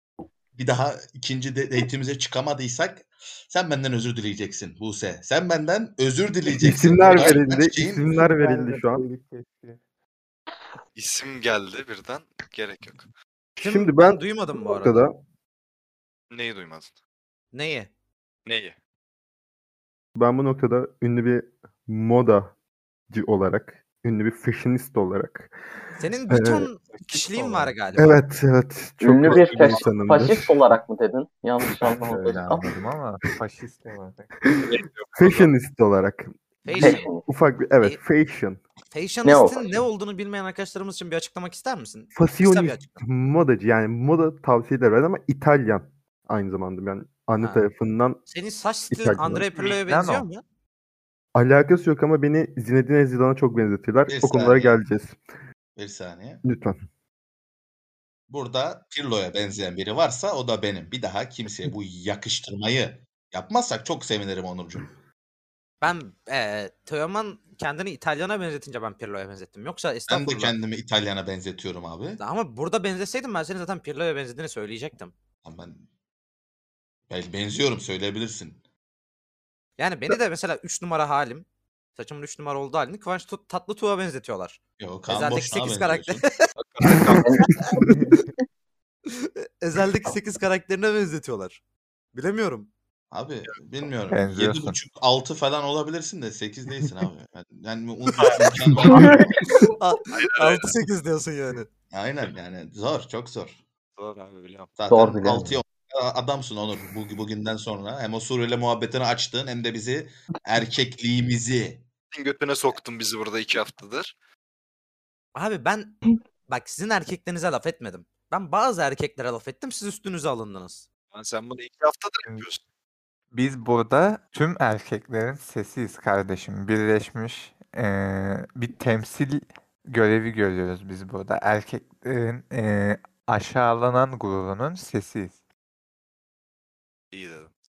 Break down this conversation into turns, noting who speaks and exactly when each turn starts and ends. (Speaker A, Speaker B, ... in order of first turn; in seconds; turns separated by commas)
Speaker A: 0.6-8.1, Speaker B: 6.6-9.1, Speaker C: 7.0-7.4, Speaker C: 8.1-9.8, Speaker D: 11.0-13.1, Speaker B: 13.6-15.1, Speaker E: 13.6-15.0, Speaker D: 16.3-16.9, Speaker E: 17.5-17.9, Speaker D: 18.5-18.8, Speaker B: 20.1-22.5, Speaker B: 23.1-25.5, Speaker E: 26.0-28.2, Speaker B: 26.3-26.7, Speaker D: 27.1-27.7, Speaker C: 27.3-27.7, Speaker B: 28.0-30.6, Speaker F: 29.0-32.7, Speaker C: 29.3-29.7, Speaker C: 31.8-34.3, Speaker B: 34.5-38.6, Speaker D: 34.6-35.5, Speaker E: 36.6-37.1, Speaker F: 36.8-37.2, Speaker E: 38.9-42.9, Speaker F: 39.2-39.7, Speaker B: 42.1-48.2, Speaker E: 47.4-47.7, Speaker E: 48.3-50.4, Speaker B: 48.9-49.5, Speaker C: 49.7-50.3, Speaker B: 51.4-55.2, Speaker A: 54.1-54.8, Speaker A: 55.8-56.5, Speaker B: 56.4-56.8, Speaker A: 58.3-64.9, Speaker E: 65.8-70.5, Speaker A: 70.1-72.2, Speaker E: 72.2-75.1, Speaker A: 75.5-75.9, Speaker A: 77.1-78.6, Speaker E: 79.8-81.5, Speaker E: 82.0-86.3, Speaker A: 84.8-86.2, Speaker D: 86.6-87.5, Speaker F: 87.2-87.5, Speaker C: 87.8-88.2, Speaker E: 89.1-91.6, Speaker E: 92.1-92.7, Speaker A: 93.1-99.4, Speaker C: 94.1-94.8, Speaker D: 98.2-98.5, Speaker E: 99.7-101.7, Speaker D: 100.1-100.7, Speaker A: 101.9-103.6, Speaker D: 104.0-104.7, Speaker A: 104.8-111.8, Speaker F: 104.9-105.6, Speaker D: 112.1-114.1, Speaker E: 115.3-120.8, Speaker D: 121.1-122.6, Speaker C: 123.3-135.4, Speaker D: 137.1-137.5